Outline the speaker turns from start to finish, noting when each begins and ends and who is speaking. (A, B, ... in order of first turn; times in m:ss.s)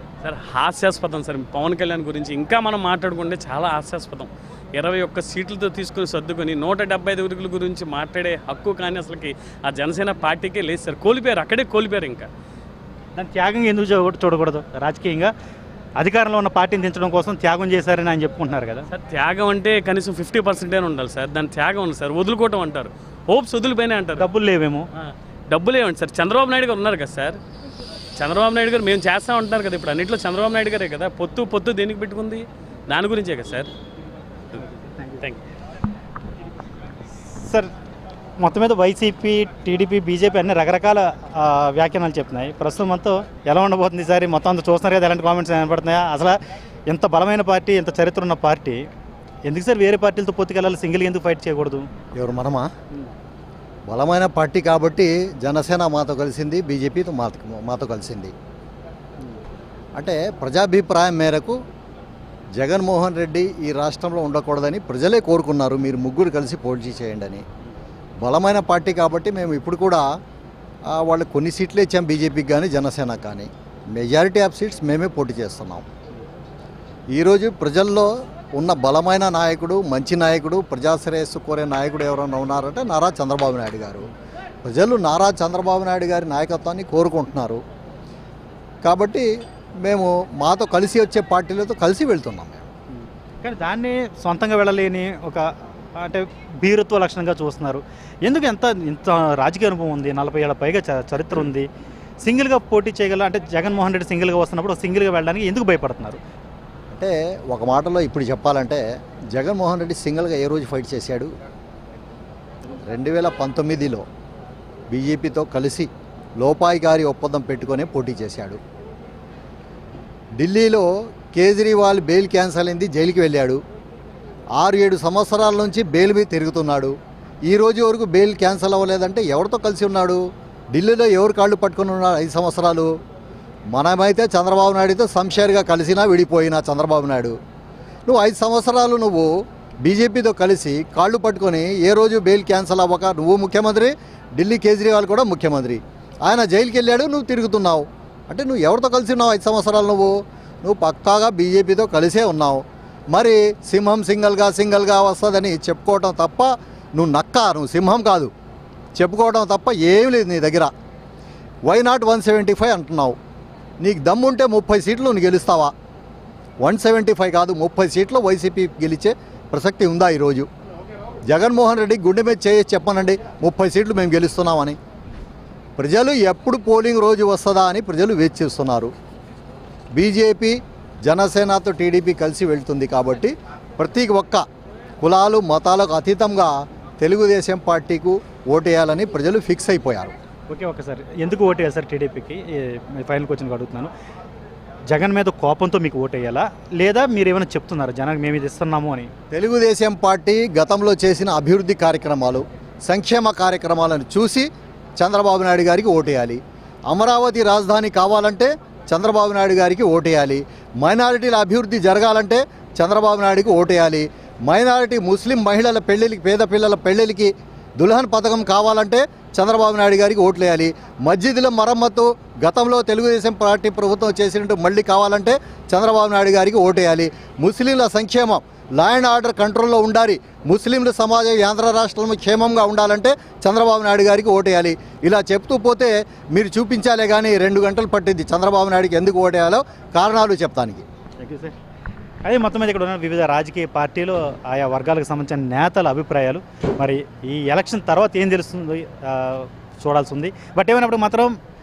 0:00.2-0:12.3 A
0:13.2-0:15.3 B
0:16.0-0:18.9 B
0:18.9-0:24.3 A
0:24.2-0:24.9 B
0:24.9-0:27.4 A
0:28.2-0:33.7 A
0:37.3-0:37.7 B
0:38.4-0:46.4 B
0:46.9-0:48.8 B
0:49.4-0:51.9 B
0:52.2-0:52.7 C
0:53.9-0:58.3 C
1:00.0-1:01.6 C
1:02.6-1:07.4 C
1:08.2-1:10.0 C
1:10.9-1:15.9 C
1:17.1-1:24.1 C
1:24.6-1:27.6 C
1:28.8-1:29.3 C
1:29.8-1:32.6 C
1:33.4-1:41.7 B
1:42.2-1:46.2 B
1:46.9-1:51.3 C
1:52.8-1:54.0 C
1:54.9-1:58.6 C
2:00.4-2:03.6 C
2:04.6-2:10.2 C
2:10.7-2:12.9 C
2:13.7-2:17.4 C
2:18.1-2:38.3 C
2:39.0-2:40.7 C
2:41.6-2:43.2 C
2:43.8-2:45.7 C
2:46.6-2:50.5 C
2:51.3-2:54.8 C
2:55.8-2:58.9 C
2:59.9-3:04.4 C
3:05.0-3:10.1 C
3:10.5-3:13.9 B
3:14.9-3:19.1 B
3:19.3-4:00.9 C
4:01.2-4:01.6 B
4:02.2-4:11.4 B